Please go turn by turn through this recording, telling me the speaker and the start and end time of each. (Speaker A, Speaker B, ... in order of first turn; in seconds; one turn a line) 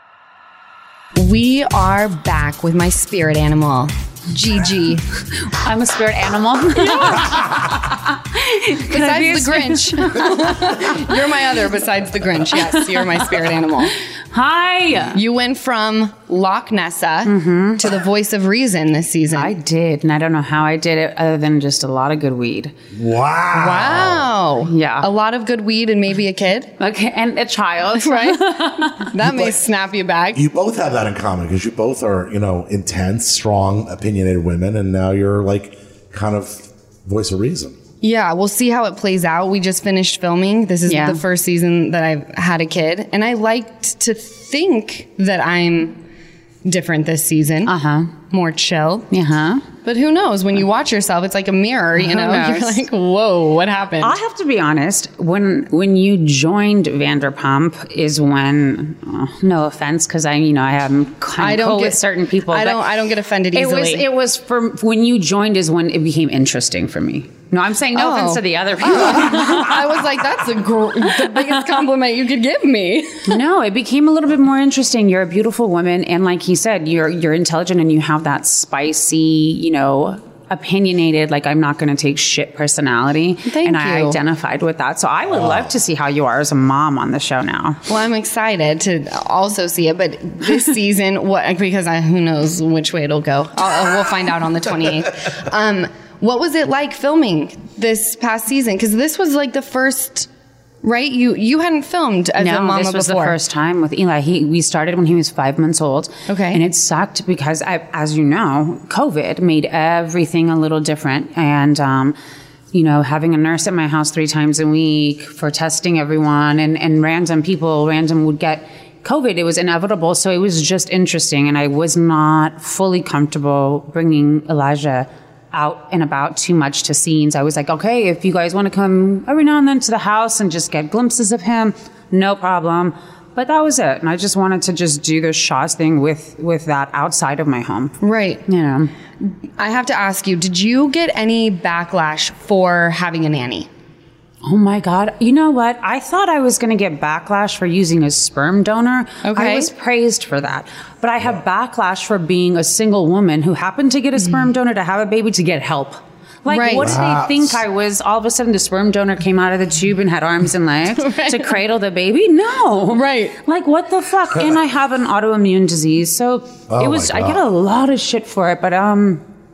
Speaker A: 1.1-5.0
Speaker B: 5.5-11.1
Speaker A: 6.8-7.3
Speaker A: 8.9-13.9
Speaker B: 12.5-12.9
Speaker B: 14.3-15.2
Speaker A: 15.1-19.5
Speaker B: 17.2-17.8
Speaker B: 19.3-22.7
Speaker C: 22.9-24.3
Speaker A: 23.5-26.7
Speaker B: 24.6-25.1
Speaker B: 26.8-29.1
Speaker A: 28.0-30.4
Speaker C: 29.2-29.6
Speaker C: 30.3-37.8
Speaker A: 38.0-46.0
Speaker B: 40.9-41.2
Speaker A: 46.6-47.7
Speaker B: 47.6-48.1
Speaker A: 48.3-49.1
Speaker B: 49.1-49.6
Speaker A: 49.8-54.1
Speaker B: 52.0-52.8
Speaker B: 54.0-62.8
Speaker A: 61.4-64.0
Speaker B: 63.5-70.2
Speaker A: 67.9-73.3
Speaker B: 71.2-71.5
Speaker B: 73.3-87.8
Speaker A: 83.5-84.2
Speaker C: 85.2-85.7
Speaker A: 87.9-100.3
Speaker A: 100.8-103.3
Speaker B: 102.4-112.2
Speaker A: 106.3-106.6
Speaker B: 112.7-137.9
Speaker A: 138.0-138.4
Speaker B: 138.5-138.9
Speaker A: 139.6-143.7
Speaker B: 144.4-169.2
Speaker A: 149.2-149.7
Speaker A: 156.5-157.0
Speaker C: 156.7-157.6
Speaker A: 161.0-161.5
Speaker A: 162.9-163.3
Speaker C: 166.7-167.4